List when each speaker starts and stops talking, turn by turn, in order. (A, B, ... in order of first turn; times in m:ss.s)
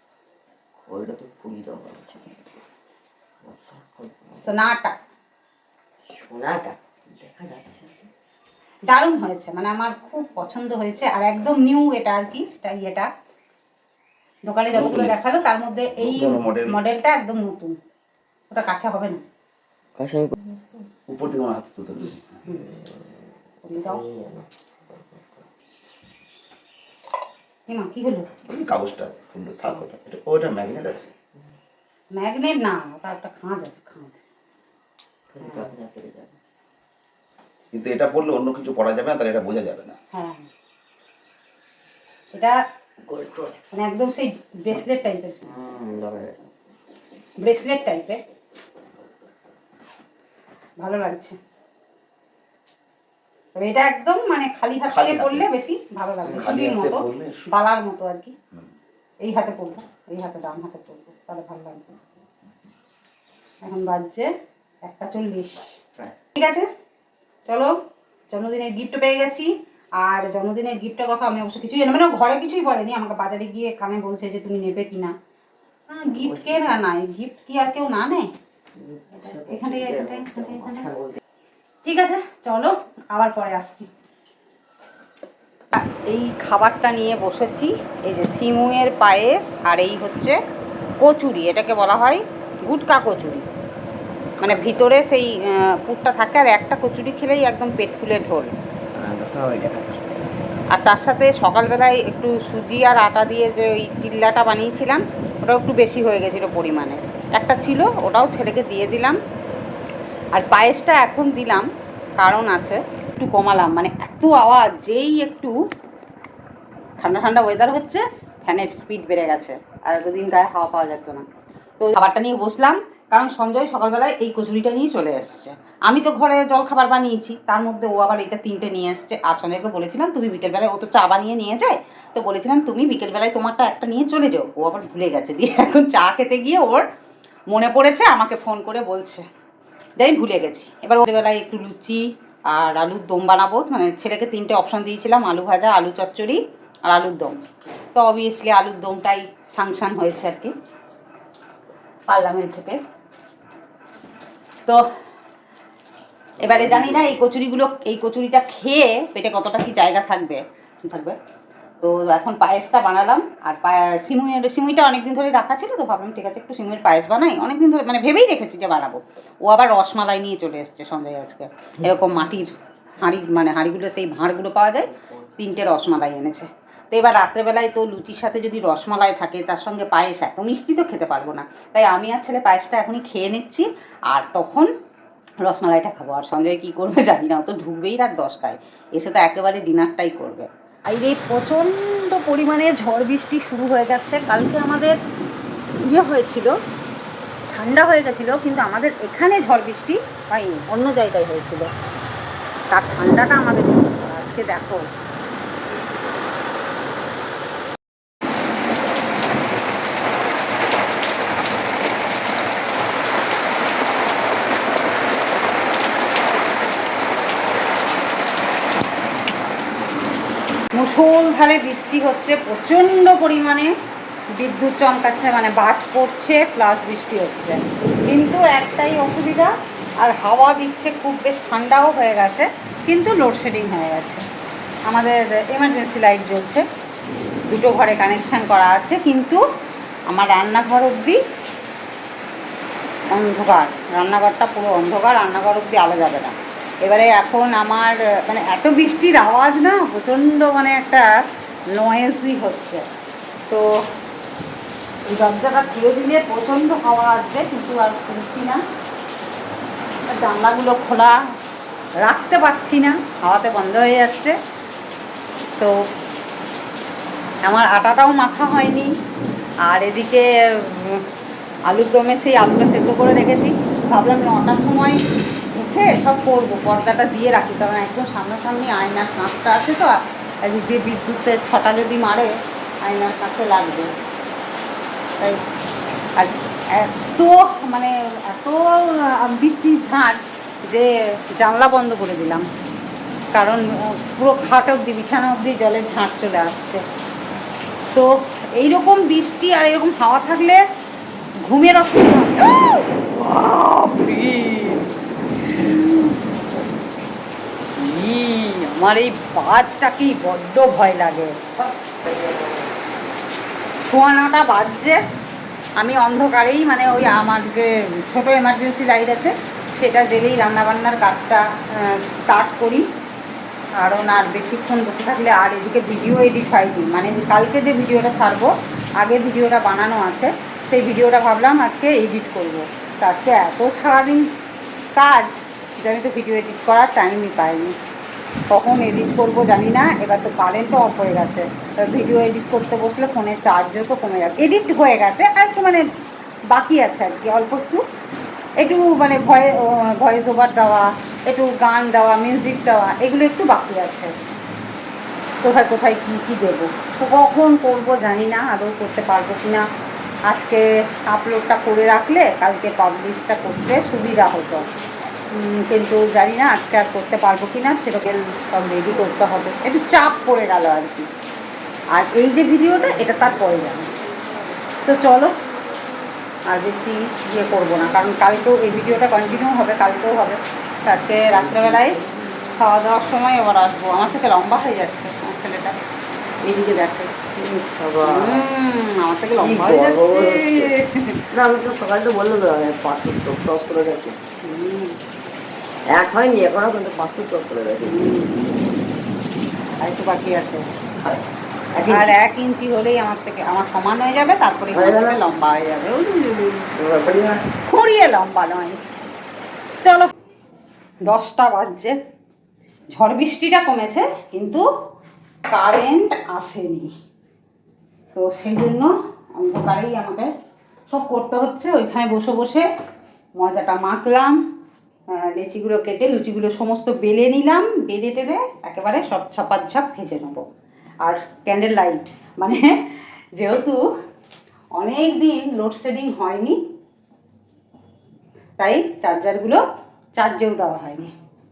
0:00.8-0:02.3 A
0:03.4-0:04.4 A
0:04.4-0:05.0 B
0:06.1-0:08.1 A
0:08.9-0:13.1 B
0:14.4-0:17.8 B
0:14.7-0:15.3 C
0:16.0-0:16.8 C
0:18.5-0:19.2 B
0:20.0-0:20.9 A
0:21.1-0:22.2 C
0:22.5-0:23.3 A
0:23.6-0:24.0 B
0:23.8-0:25.5 A
0:27.7-0:28.3 B
0:28.5-0:31.1 C
0:32.1-0:34.2 B
0:35.3-0:36.4 A
0:37.7-0:40.0 C
0:40.1-0:40.5 B
0:42.3-0:42.6 B
0:43.0-0:43.8 A
0:43.7-0:45.4 B
0:45.4-0:46.5 A
0:47.4-0:48.2 B
0:50.8-0:51.4 B
0:53.6-0:58.3 B
0:54.9-0:55.5 C
0:56.2-0:57.5 C
0:59.2-1:02.0 B
1:03.6-1:04.3 B
1:04.8-1:05.7 B
1:06.3-1:06.7 B
1:07.5-1:07.7 B
1:08.3-1:15.1 B
1:15.9-1:18.3 B
1:16.2-1:16.8 A
1:18.8-1:21.2 A
1:19.2-1:20.9 B
1:21.8-1:23.9 B
1:25.7-1:30.4 B
1:31.0-1:33.4 B
1:34.4-1:38.5 B
1:38.9-1:40.2 A
1:40.7-1:49.2 B
1:50.3-1:51.7 B
1:52.2-1:55.5 B
1:57.0-2:01.2 B
2:01.8-2:16.8 B
2:17.5-2:19.2 B
2:20.0-2:27.4 B
2:27.9-2:30.5 B
2:32.1-2:32.8 B
2:36.4-2:41.2 B
2:36.4-2:37.0 A
2:41.8-3:04.7 B
3:05.4-3:15.0 B
3:15.8-3:16.5 B
3:17.5-3:21.7 B
3:22.7-3:24.8 B
3:40.8-3:43.7 B
3:44.4-3:54.2 B
3:54.9-3:56.6 B
3:57.5-3:59.4 B
4:00.1-4:01.2 B
4:03.1-4:11.0 B
4:11.7-4:12.8 B
4:13.5-4:13.8 B
4:15.1-4:18.6 B
4:20.1-4:21.2 B
4:22.0-4:24.4 B
4:27.4-4:28.9 B
4:29.7-4:31.0 B
4:31.7-4:35.0 B
4:35.5-4:42.3 B
4:42.8-4:43.9 B
4:46.2-4:52.5 B
4:53.3-4:56.8 B
4:57.9-5:00.6 B
5:01.5-5:04.8 B
5:05.4-5:06.1 B
5:07.8-5:11.7 B
5:12.1-5:12.4 A
5:13.9-5:15.0 B
5:15.8-5:22.8 B
5:23.8-5:34.3 B
5:35.0-5:37.7 B
5:38.5-5:45.8 B
5:46.5-5:47.8 B
5:48.6-5:54.1 B
5:55.4-5:59.6 B
6:00.3-6:04.6 B
6:05.3-6:11.1 B
6:11.9-6:13.9 B
6:14.8-6:15.4 B
6:16.5-6:22.0 B
6:21.3-6:22.1 A
6:22.6-6:25.8 B
6:26.4-6:27.4 B
6:27.4-6:28.5 A
6:28.0-6:31.2 B
6:29.4-6:30.7 A
6:31.3-6:34.2 A
6:34.4-6:35.0 B
6:35.9-6:38.2 A
6:37.8-6:38.3 B
6:39.8-6:40.6 B
6:41.7-6:42.1 A
6:41.9-6:46.7 B
6:44.7-6:45.2 A
6:46.7-6:47.4 A
6:47.6-6:48.8 B
6:49.8-6:50.1 B
6:51.1-6:52.0 B
6:52.9-6:54.6 B
6:55.5-6:56.9 B
6:58.1-7:00.3 B
7:00.9-7:02.7 B
7:03.4-7:04.4 B
7:05.1-7:10.4 B
7:11.0-7:13.8 B
7:14.8-7:16.6 B
7:18.6-7:19.6 B
7:20.2-7:21.1 B